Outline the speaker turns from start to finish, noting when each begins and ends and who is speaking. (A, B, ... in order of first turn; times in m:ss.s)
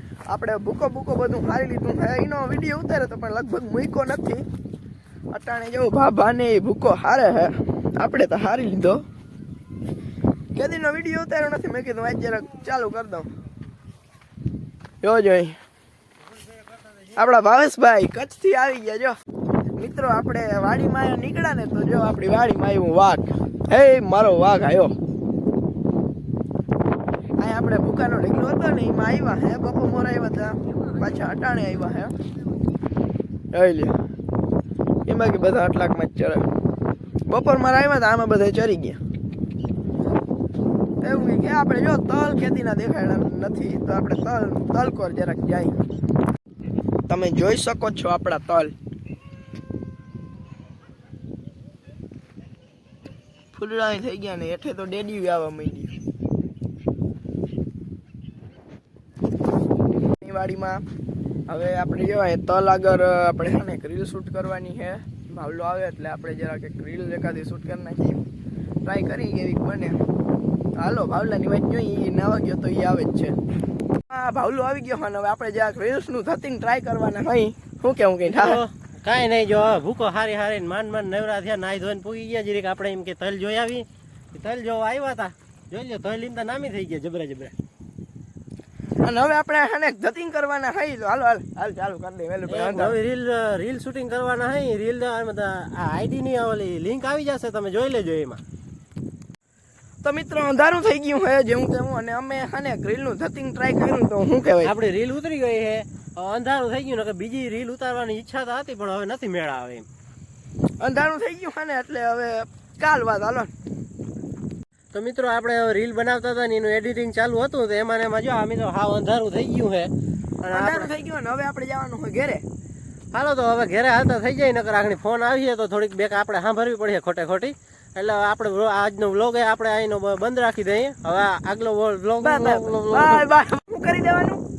0:00.3-0:04.4 A
0:05.3-0:09.0 A
0:10.6-0:13.3 A
0:15.0-0:15.6 A
0:17.1-0:19.2 A
0:19.8-0:24.9 A
0:27.4-0:32.1 A
0:33.5-0:34.0 A
0:35.1-0:36.4 A
0:37.3-0:39.0 A
0:41.0-0:45.8 A
0:47.1-0:48.7 A
0:53.5-0:55.9 A
1:00.2-1:00.8 A
1:01.5-1:08.2 A
1:08.8-1:10.0 A
1:10.8-1:13.4 A
1:14.1-1:18.6 A
1:18.3-1:27.5 B
1:29.0-1:33.0 A
1:32.5-1:38.4 B
1:40.0-1:44.7 A
1:44.6-1:49.9 B
1:50.8-1:53.5 A
1:54.9-1:59.9 B
2:00.4-2:00.9 B
2:00.5-2:02.4 A
2:03.1-2:13.3 B
2:12.2-2:14.4 A